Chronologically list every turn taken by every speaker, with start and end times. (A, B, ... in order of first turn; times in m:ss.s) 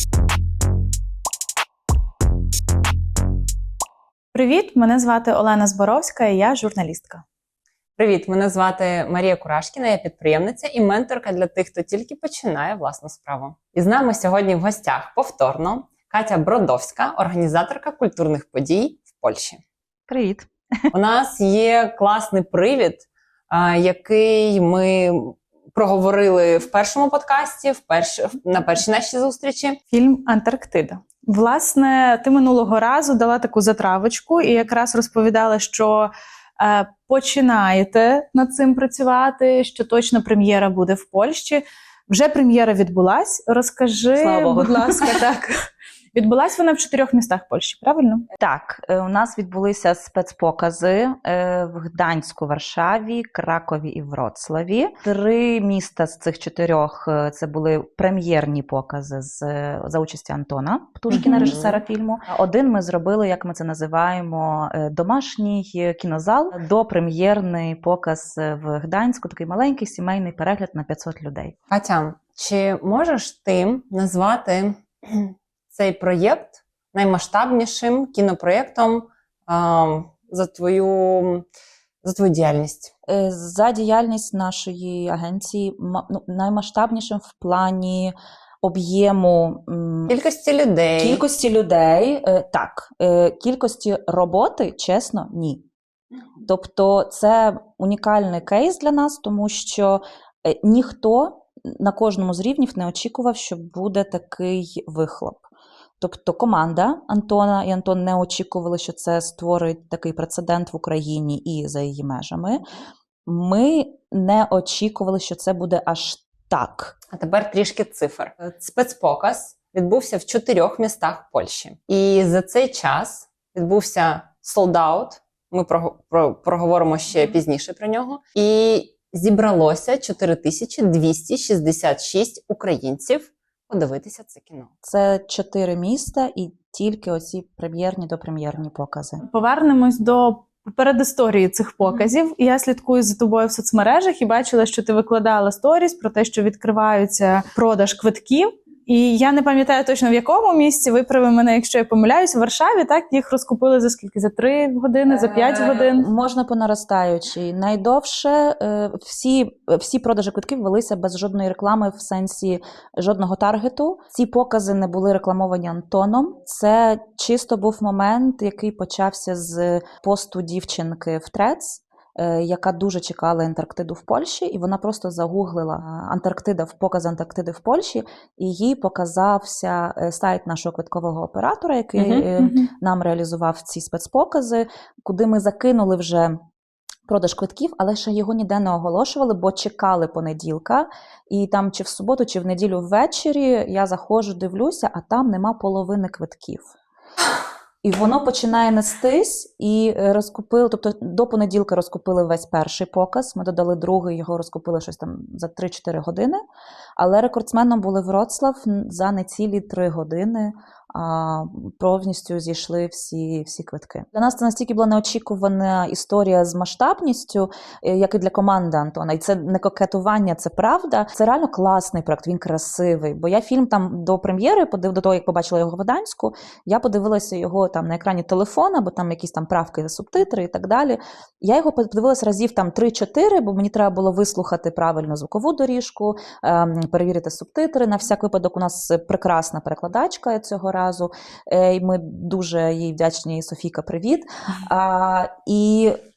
0:04.3-0:07.2 A
0:08.0-0:19.6 B
0:20.1-0:20.5 C
0:20.9-0:29.8 B
0:29.9-0:45.6 A
0:44.2-0:45.2 C
0:46.1-0:48.3 A
0:48.4-1:11.6 C
1:01.1-1:01.8 B
1:01.2-1:01.5 A
1:11.7-1:21.5 B
1:22.0-1:22.9 B
1:23.1-1:30.2 C
1:30.1-1:31.2 B
1:31.0-1:35.6 C
1:36.4-1:45.4 C
1:46.0-1:52.6 C
1:53.3-1:57.0 C
1:57.1-2:14.7 B
2:14.8-2:19.2 C
2:19.2-2:36.1 A
2:35.1-3:06.4 C
3:02.0-3:02.3 B
3:02.4-3:02.7 A
3:07.1-3:16.7 C
3:17.8-3:26.4 C
3:27.0-4:06.0 C